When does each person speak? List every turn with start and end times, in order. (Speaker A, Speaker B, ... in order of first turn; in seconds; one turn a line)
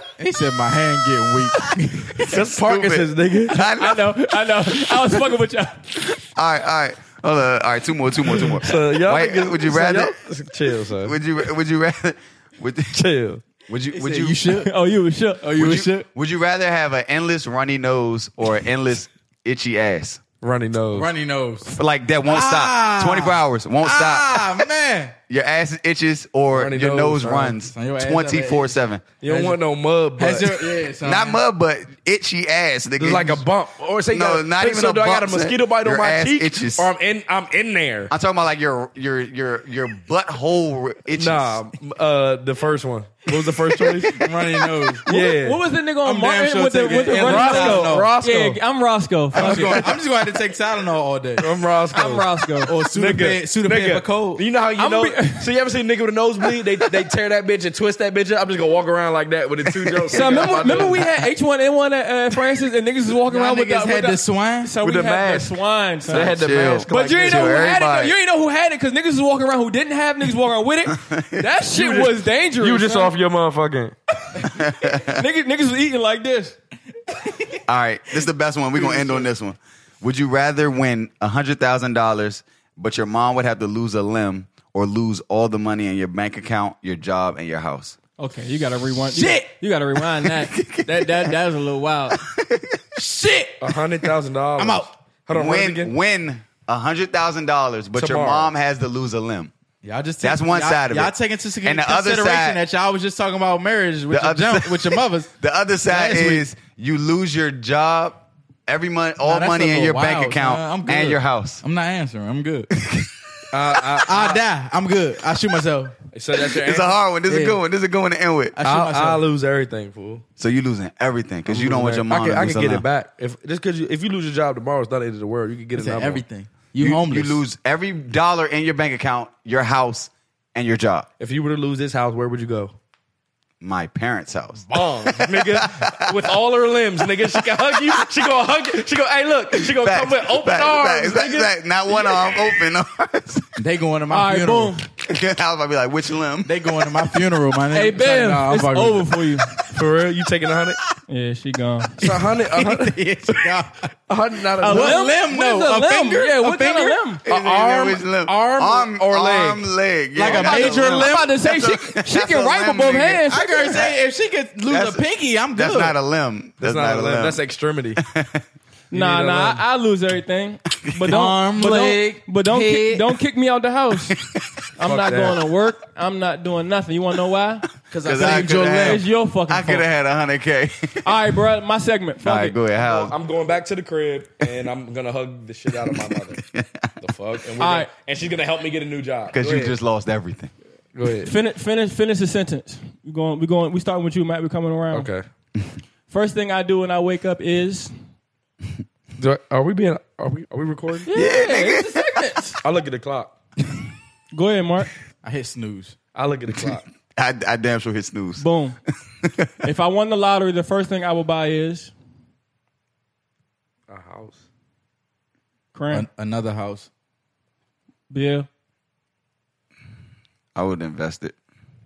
Speaker A: 0.2-2.2
Speaker B: 2.2-3.6
Speaker C: 2.2-4.3
Speaker D: 3.6-6.0
Speaker C: 6.2-10.1
Speaker B: 8.5-11.2
Speaker C: 11.0-13.0
Speaker B: 12.9-13.4
Speaker C: 13.7-14.4
Speaker A: 13.9-14.7
Speaker D: 14.5-15.6
Speaker A: 15.4-16.1
Speaker C: 15.6-20.2
Speaker B: 20.4-21.1
Speaker A: 20.9-21.7
Speaker C: 21.7-24.7
Speaker A: 22.3-25.1
Speaker C: 25.3-29.1
Speaker B: 26.5-27.6
Speaker A: 27.7-29.6
Speaker B: 29.2-30.7
Speaker A: 30.2-31.4
Speaker C: 31.0-33.4
Speaker B: 33.0-38.1
Speaker C: 34.1-36.9
Speaker C: 38.1-41.6
Speaker B: 41.2-44.2
Speaker A: 44.1-45.0
Speaker B: 45.1-45.6
Speaker D: 45.1-50.0
Speaker A: 46.0-48.1
Speaker B: 47.1-48.6
Speaker A: 49.3-51.5
Speaker B: 49.4-50.0
Speaker B: 51.4-61.1
Speaker D: 51.9-52.7
Speaker A: 52.7-54.4
Speaker D: 54.8-55.5
Speaker D: 60.1-73.1
Speaker A: 60.1-60.4
Speaker A: 63.3-64.7
Speaker B: 64.8-67.6
Speaker C: 66.1-68.2
Speaker C: 70.9-71.5
Speaker B: 71.7-74.0
Speaker D: 74.3-76.6
Speaker C: 74.4-75.2
Speaker C: 77.7-88.0
Speaker D: 78.8-79.2
Speaker D: 88.2-92.2
Speaker A: 89.1-89.5
Speaker C: 90.1-91.4
Speaker C: 92.1-92.8
Speaker A: 93.0-93.6
Speaker B: 93.6-96.0
Speaker A: 94.6-94.9
Speaker C: 95.3-99.5
Speaker B: 98.0-98.5
Speaker A: 99.8-105.3
Speaker C: 100.2-102.6
Speaker C: 104.1-111.6
Speaker A: 105.9-106.5
Speaker A: 109.2-112.7
Speaker C: 112.7-113.1
Speaker B: 113.5-114.4
Speaker A: 114.0-116.0
Speaker B: 116.1-116.9
Speaker C: 116.4-118.6
Speaker A: 117.3-117.6
Speaker A: 118.6-119.2
Speaker B: 118.7-120.2
Speaker C: 120.4-122.8
Speaker B: 121.5-126.2
Speaker A: 125.8-127.4
Speaker C: 126.8-131.1
Speaker B: 131.2-132.7
Speaker C: 133.6-136.3
Speaker B: 134.7-141.5
Speaker C: 137.4-137.8
Speaker C: 139.6-143.6
Speaker A: 143.6-144.8
Speaker D: 144.1-144.9
Speaker C: 145.0-146.5
Speaker A: 146.4-149.2
Speaker D: 147.7-149.5
Speaker B: 149.7-150.8
Speaker D: 151.1-152.0
Speaker B: 152.0-153.0
Speaker A: 152.1-153.9
Speaker B: 154.1-155.0
Speaker D: 154.6-157.2
Speaker A: 154.6-157.0
Speaker C: 157.2-164.0
Speaker B: 157.3-159.7
Speaker A: 158.3-158.9
Speaker A: 160.2-161.4
Speaker D: 160.2-163.6
Speaker A: 163.3-166.0
Speaker C: 164.7-167.4
Speaker B: 166.6-168.0
Speaker C: 168.0-168.4
Speaker B: 168.9-169.6
Speaker D: 168.9-174.2
Speaker A: 171.1-173.1
Speaker D: 174.8-177.7
Speaker B: 174.8-175.4
Speaker A: 177.9-179.0
Speaker C: 178.0-181.3
Speaker D: 178.2-179.9
Speaker D: 181.1-182.6
Speaker C: 182.2-183.2
Speaker B: 182.8-186.4
Speaker C: 185.9-186.8
Speaker B: 187.0-189.8
Speaker D: 187.6-187.9
Speaker C: 189.3-190.5
Speaker B: 190.9-191.3
Speaker D: 191.2-195.1
Speaker B: 194.9-195.2
Speaker D: 196.1-197.9
Speaker B: 199.2-201.1
Speaker D: 201.1-202.6
Speaker C: 201.1-202.3
Speaker B: 202.6-203.3
Speaker D: 204.3-204.9
Speaker A: 205.2-205.9
Speaker B: 206.2-206.9
Speaker C: 207.2-208.4
Speaker D: 208.4-208.8
Speaker C: 209.2-209.5
Speaker D: 209.6-211.9
Speaker B: 213.9-214.4
Speaker D: 215.7-216.1
Speaker A: 215.9-216.9
Speaker D: 218.1-218.5
Speaker C: 220.6-221.3